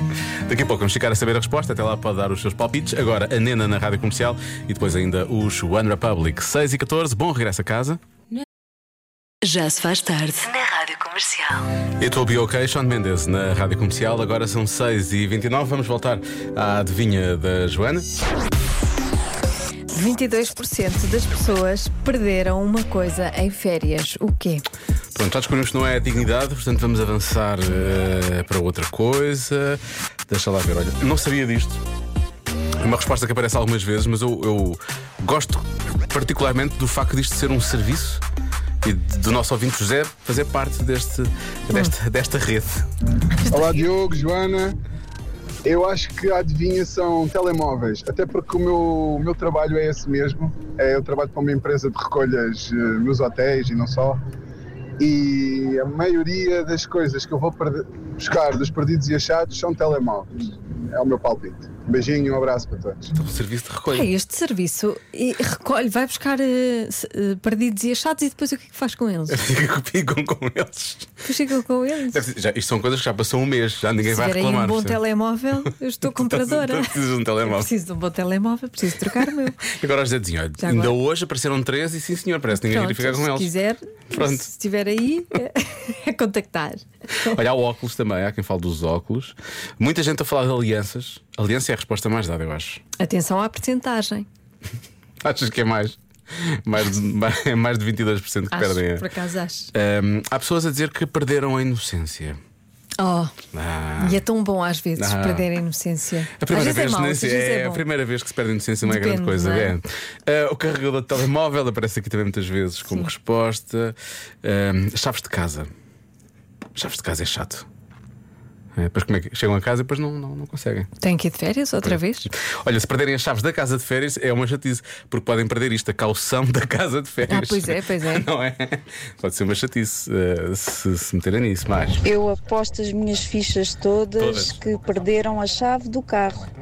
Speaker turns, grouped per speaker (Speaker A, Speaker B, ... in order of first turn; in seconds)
Speaker A: 0.5-8.0, 12.0-18.1, 25.1-31.8, 32.8-38.2, 38.8-42.9, 63.1-64.1, 69.3-71.1, 72.1-75.0, 75.7-77.7, 79.6-83.5, 84.1-84.5, 87.2-92.8, 95.2-99.1, 99.7-102.4, 103.5-104.2, 105.0-105.5, 106.4-115.7, 116.8-117.7, 118.8-120.9, 121.8-132.0, 134.2-134.6
Speaker B: 9.4-11.6
Speaker C: 19.9-24.6, 63.9-69.5, 71.2-72.2, 74.0-79.7, 80.6-80.9, 82.5-87.4, 93.0-94.3, 98.5-99.7, 103.0-103.3, 104.0-107.8, 108.8-109.8, 121.0-122.3, 127.3-128.3
Speaker D: 43.5-44.8, 45.6-54.2, 55.0-60.3, 60.9-63.1
Speaker E: 132.0-136.4